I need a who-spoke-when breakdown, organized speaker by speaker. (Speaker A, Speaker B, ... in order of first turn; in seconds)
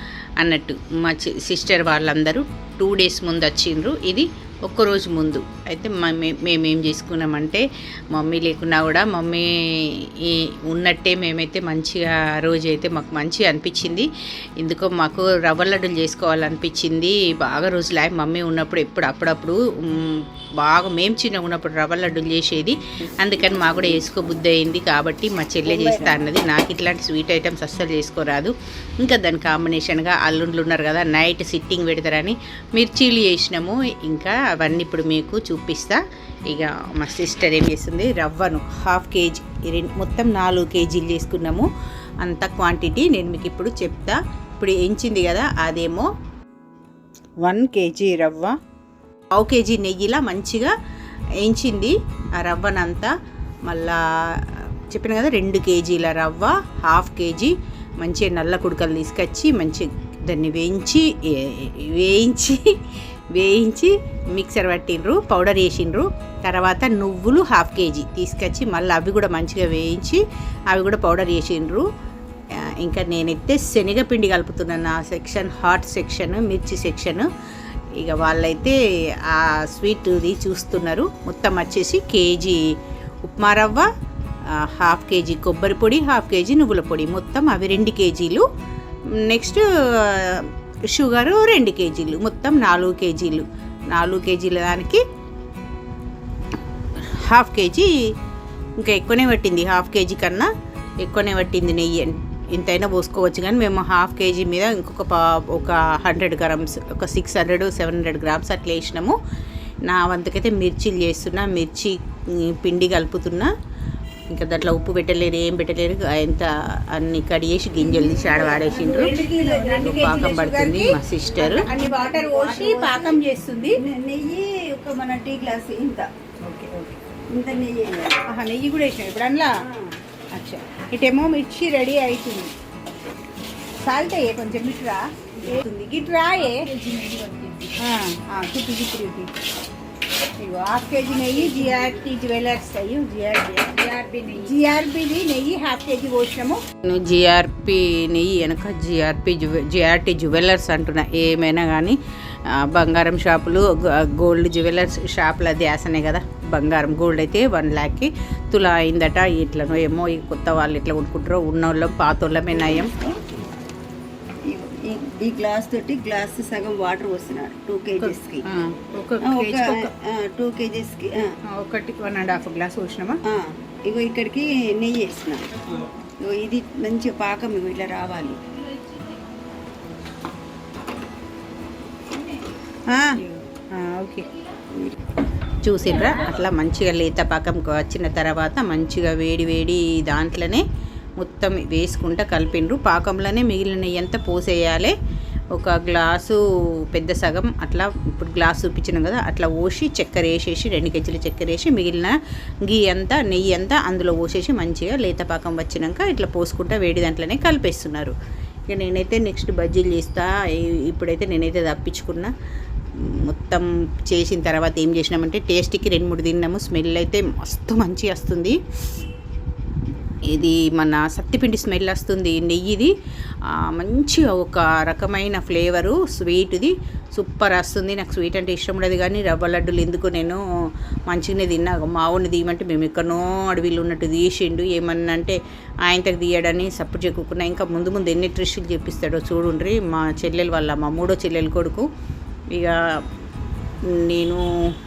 Speaker A: 0.4-14.1, 14.6-41.7, 42.2-46.1, 47.4-48.5, 49.3-50.7, 51.4-53.1, 53.7-62.7, 63.3-71.9, 72.6-77.3, 78.0-82.6, 83.2-83.9, 84.5-88.5, 89.2-95.0, 97.0-97.9, 98.8-100.5, 101.0-109.2, 109.8-113.5, 114.3-119.2, 119.8-121.7, 128.4-129.3, 146.8-162.9, 168.0-169.9, 171.5-173.2, 185.6-190.6, 191.2-194.9, 195.6-196.4, 196.9-208.2, 208.7-212.3, 213.0-218.6, 220.3-222.9, 223.5-230.4, 231.1-241.9, 243.9-244.4
Speaker B: 25.8-26.1, 118.0-120.2, 121.3-123.2, 123.7-126.1, 127.3-128.2, 129.6-130.0, 162.5-163.4, 164.4-168.4, 169.2-171.3, 173.2-178.4, 184.7-185.0
Speaker C: 118.4-123.8, 126.5-126.9, 128.4-129.5, 130.3-132.5, 133.8-139.3, 140.4-146.6, 182.9-184.3